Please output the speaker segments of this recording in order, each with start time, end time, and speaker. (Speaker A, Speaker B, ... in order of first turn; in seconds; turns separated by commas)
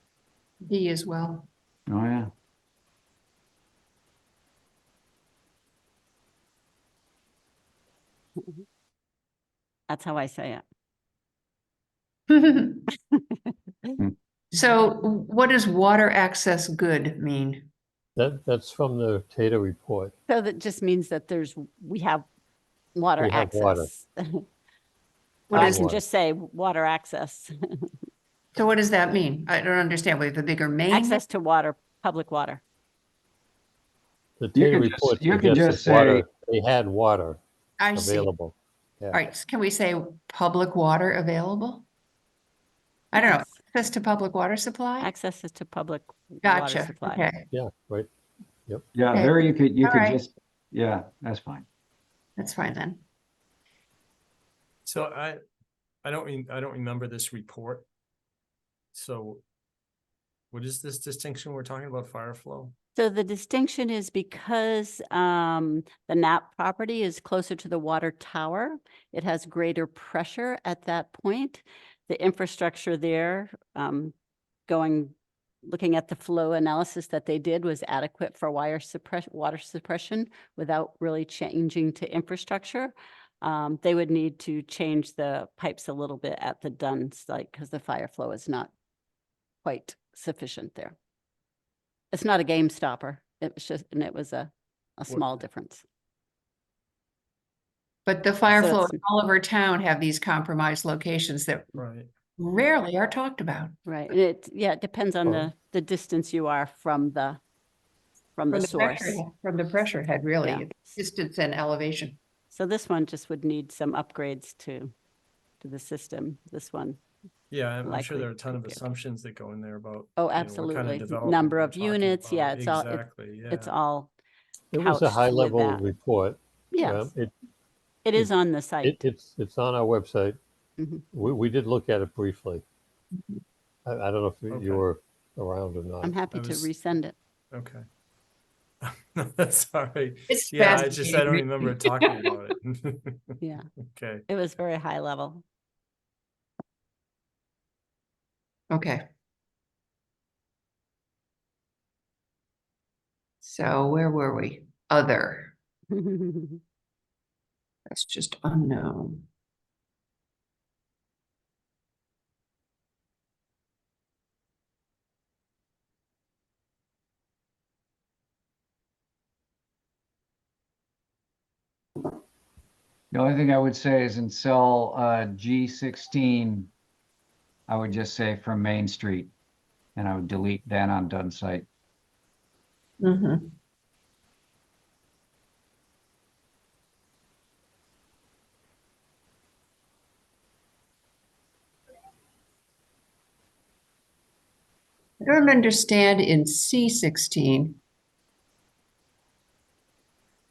Speaker A: 0.6-1.5, Speaker B: 1.9-2.3, Speaker C: 9.9-10.6, Speaker A: 12.3-12.8, Speaker C: 12.9-13.9, Speaker A: 14.5-17.7, Speaker D: 18.2-20.1, Speaker C: 20.3-22.2, Speaker C: 22.9-24.4, Speaker D: 23.2-23.9, Speaker A: 25.5-25.8, Speaker D: 25.5-26.0, Speaker C: 25.5-27.9, Speaker A: 28.5-31.2, Speaker C: 30.9-32.6, Speaker D: 34.4-37.4, Speaker B: 34.5-36.2, Speaker A: 37.8-38.3, Speaker D: 37.9-39.2, Speaker A: 39.1-41.9, Speaker A: 43.1-45.1, Speaker C: 43.2-43.5, Speaker C: 45.0-47.3, Speaker A: 46.4-47.5, Speaker D: 47.5-48.1, Speaker B: 48.9-51.7, Speaker A: 49.1-50.2, Speaker A: 52.4-53.0, Speaker E: 54.9-55.4, Speaker E: 56.0-57.8, Speaker E: 58.9-59.4, Speaker E: 60.5-62.7, Speaker C: 63.0-74.1, Speaker C: 74.7-75.1, Speaker C: 75.6-88.7, Speaker C: 89.6-90.9, Speaker C: 92.1-95.8, Speaker E: 95.1-95.4, Speaker A: 98.0-101.7, Speaker C: 98.5-99.0, Speaker E: 101.7-102.1, Speaker A: 102.4-103.7, Speaker C: 103.8-107.4, Speaker C: 108.3-109.2, Speaker A: 108.5-112.2, Speaker C: 110.4-110.9, Speaker C: 112.5-114.9, Speaker C: 115.6-117.0, Speaker E: 117.5-123.7, Speaker C: 117.8-118.8, Speaker C: 120.2-124.1, Speaker D: 124.7-127.3, Speaker C: 124.8-125.9, Speaker C: 126.7-127.1, Speaker C: 128.0-129.0, Speaker D: 128.8-130.4, Speaker C: 130.8-131.0, Speaker D: 131.1-132.6, Speaker D: 133.8-136.2, Speaker E: 134.5-134.8, Speaker C: 136.0-137.2, Speaker E: 136.3-136.7, Speaker E: 137.5-137.8, Speaker E: 138.8-143.3, Speaker A: 140.3-142.2, Speaker E: 143.9-144.2, Speaker C: 144.3-145.4, Speaker A: 148.7-149.0, Speaker A: 153.4-155.5, Speaker C: 155.9-156.6, Speaker A: 157.9-159.2, Speaker B: 173.1-176.7, Speaker B: 177.7-179.3, Speaker B: 179.9-181.7, Speaker A: 183.0-183.5, Speaker A: 195.2-197.8